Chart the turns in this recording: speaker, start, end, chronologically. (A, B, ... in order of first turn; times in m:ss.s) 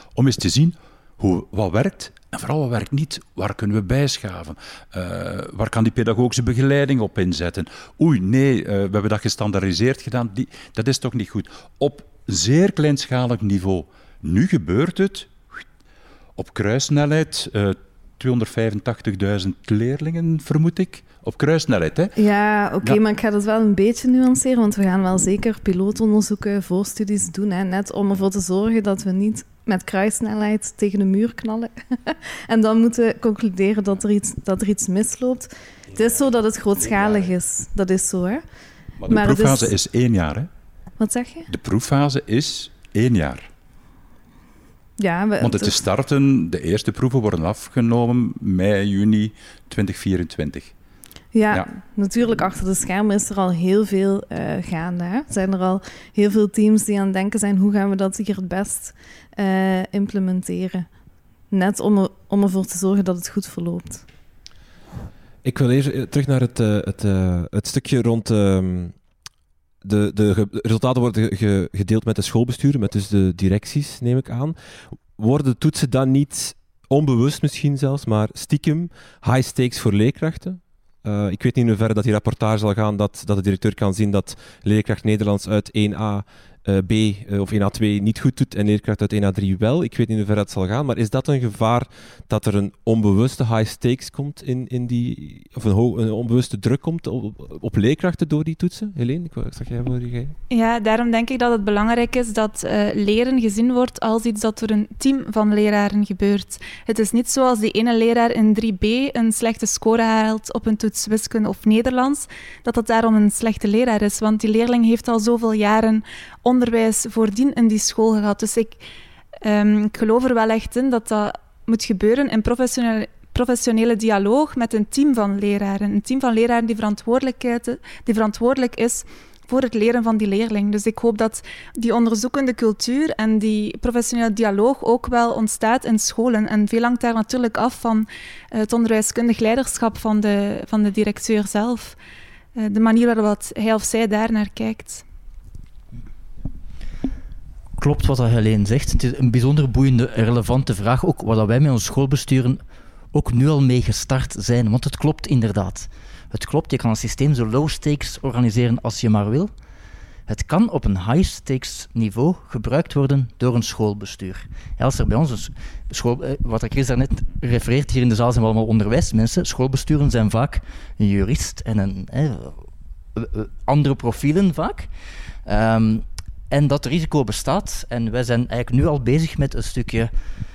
0:00.1-0:15.3 A
0:16.4-0:22.2 A
0:22.2-0:38.4 B
0:35.9-0:37.3 A
0:39.0-0:40.5 A
0:39.1-0:39.7 B
0:41.0-0:41.5 B
0:41.5-0:43.5 A
0:45.0-0:45.8 B
0:45.4-0:50.7 A
0:51.3-1:00.9 B
1:01.5-1:04.0 B
1:05.4-1:08.9 C
1:09.8-1:14.6 C
1:15.1-1:40.3 C
1:40.5-1:58.8 D
1:59.4-2:22.0 D
2:22.5-2:25.0 D
2:27.8-2:32.6 E
2:33.1-2:39.5 E
2:40.3-2:52.6 E
2:53.1-2:54.9 E
2:55.4-3:00.1 E